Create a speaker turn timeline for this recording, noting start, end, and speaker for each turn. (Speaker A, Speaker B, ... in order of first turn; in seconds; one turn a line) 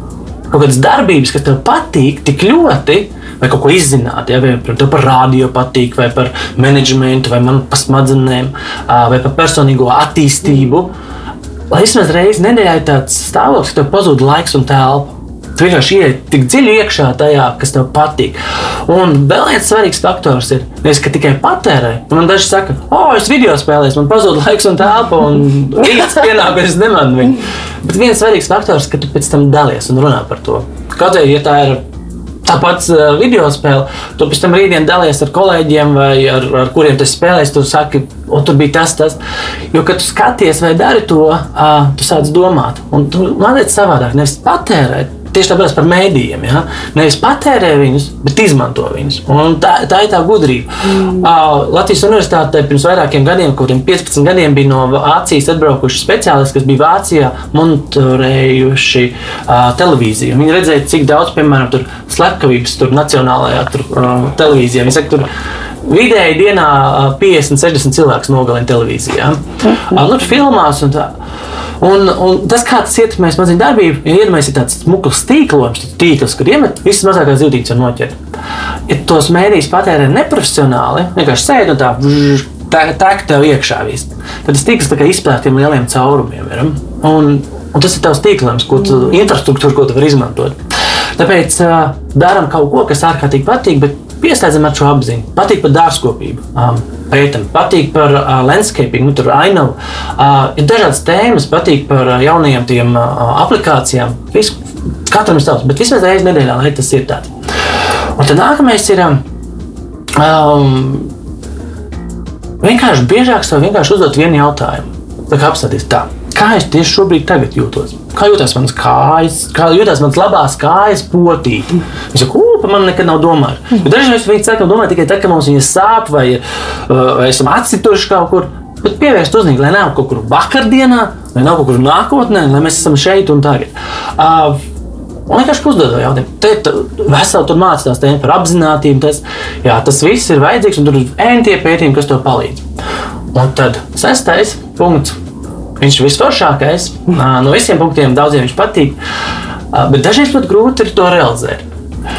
Speaker A: 0.5-10.9
Speaker A: 11.7-31.8
Speaker A: 32.4-39.2
Speaker A: 39.7-65.2
Speaker A: 65.8-71.1
Speaker A: 71.8-78.2
Speaker A: 78.9-90.6
Speaker A: 91.2-107.3
Speaker A: 108.2-109.2
Speaker A: 110.2-111.1
Speaker A: 112.6-134.6
Speaker A: 135.3-142.6
Speaker A: 143.3-145.2
Speaker A: 145.8-149.0
Speaker A: 149.7-151.7